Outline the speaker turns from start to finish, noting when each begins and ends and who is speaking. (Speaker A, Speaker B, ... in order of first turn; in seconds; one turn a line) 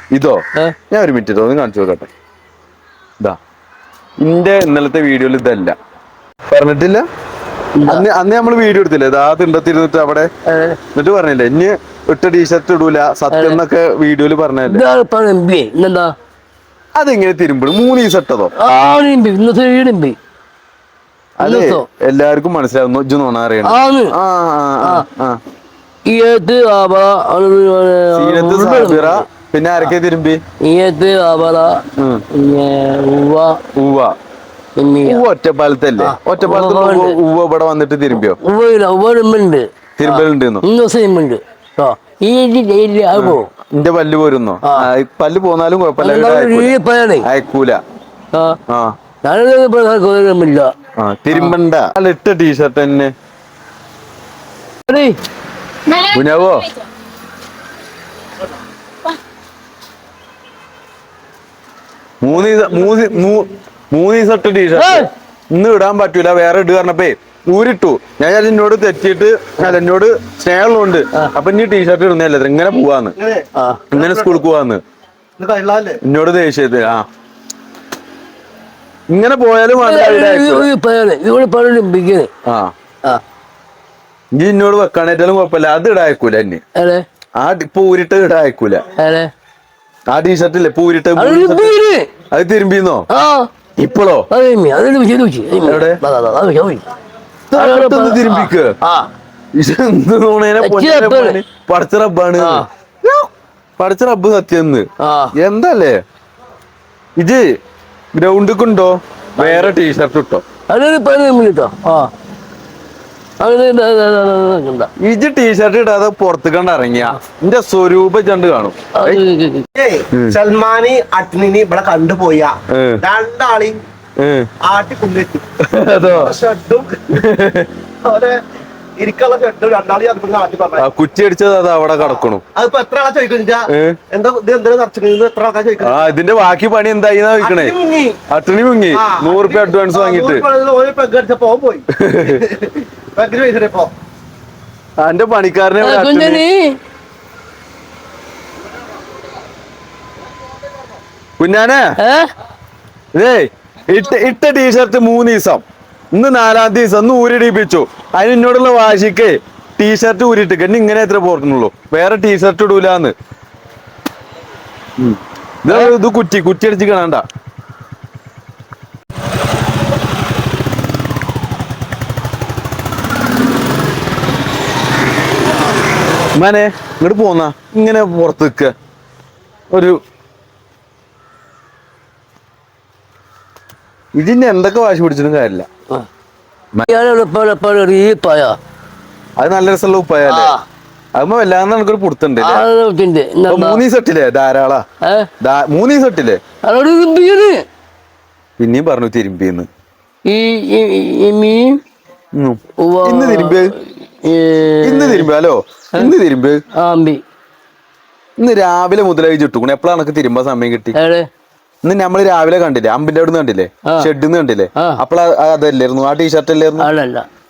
Speaker A: 0.1-2.1
Speaker A: 4.2-5.7
Speaker A: 6.5-7.0
Speaker B: 7.8-8.0
Speaker A: 7.8-10.3
Speaker B: 10.5-10.8
Speaker A: 10.9-14.8
Speaker B: 13.3-13.6
Speaker B: 14.7-16.1
Speaker A: 16.9-18.5
Speaker B: 18.6-20.2
Speaker A: 21.4-25.4
Speaker B: 21.4-21.9
Speaker B: 23.6-24.1
Speaker B: 26.1-29.2
Speaker A: 28.1-30.4
Speaker B: 30.6-33.6
Speaker A: 32.0-32.2
Speaker A: 33.8-34.1
Speaker B: 34.8-35.2
Speaker A: 35.0-38.4
Speaker B: 36.0-37.2
Speaker B: 38.1-43.5
Speaker A: 40.0-40.6
Speaker A: 43.1-47.8
Speaker B: 46.0-47.3
Speaker B: 48.3-48.6
Speaker A: 48.7-48.9
Speaker B: 49.2-50.7
Speaker A: 51.0-53.1
Speaker B: 54.9-55.2
Speaker A: 56.0-56.7
Speaker A: 62.2-73.2
Speaker B: 64.7-65.1
Speaker C: 73.2-73.5
Speaker B: 73.5-73.9
Speaker A: 73.9-74.8
Speaker C: 75.4-76.0
Speaker A: 76.0-77.0
Speaker A: 79.1-80.7
Speaker B: 79.8-82.3
Speaker A: 82.4-82.7
Speaker A: 84.3-86.6
Speaker B: 86.8-87.0
Speaker A: 87.4-88.8
Speaker B: 89.0-89.3
Speaker A: 90.1-91.7
Speaker B: 91.2-92.1
Speaker A: 92.3-93.1
Speaker B: 93.1-93.5
Speaker A: 93.8-94.2
Speaker B: 94.3-96.8
Speaker A: 95.6-96.0
Speaker A: 97.5-98.7
Speaker B: 97.5-99.1
Speaker A: 99.6-103.3
Speaker B: 100.6-101.4
Speaker B: 102.4-102.7
Speaker A: 103.8-106.0
Speaker B: 105.0-105.3
Speaker A: 107.2-107.4
Speaker A: 108.1-110.4
Speaker B: 109.4-109.8
Speaker B: 110.7-112.1
Speaker B: 113.4-114.9
Speaker A: 115.0-119.2
Speaker B: 119.0-119.7
Speaker C: 119.8-123.8
Speaker A: 120.1-120.4
Speaker A: 122.7-123.0
Speaker A: 124.2-124.5
Speaker C: 124.6-125.4
Speaker A: 125.6-126.3
Speaker C: 126.0-127.1
Speaker A: 127.1-127.7
Speaker C: 128.0-128.4
Speaker C: 129.0-130.8
Speaker A: 130.8-132.4
Speaker C: 132.0-136.1
Speaker A: 133.7-134.0
Speaker A: 135.8-137.7
Speaker C: 137.4-138.2
Speaker A: 138.3-140.4
Speaker C: 138.9-141.8
Speaker A: 141.9-142.5
Speaker C: 142.4-143.9
Speaker A: 145.0-146.4
Speaker B: 145.8-146.8
Speaker A: 151.4-151.8
Speaker B: 152.0-152.3
Speaker A: 153.1-155.6
Speaker A: 156.1-163.1
Speaker A: 165.0-167.2
Speaker B: 165.7-165.9
Speaker A: 176.3-178.7
Speaker A: 184.2-185.7
Speaker B: 186.9-188.6
Speaker A: 189.4-190.5
Speaker B: 190.2-190.6
Speaker A: 191.2-192.6
Speaker B: 192.4-193.8
Speaker A: 193.5-194.8
Speaker B: 195.0-195.3
Speaker A: 195.4-196.4
Speaker B: 196.6-197.6
Speaker A: 198.6-199.7
Speaker B: 200.3-201.8
Speaker A: 202.3-203.7
Speaker B: 202.8-205.3
Speaker A: 204.8-206.6
Speaker B: 206.7-207.2
Speaker A: 208.4-210.9
Speaker B: 210.9-211.3
Speaker A: 211.8-216.9
Speaker B: 216.8-217.2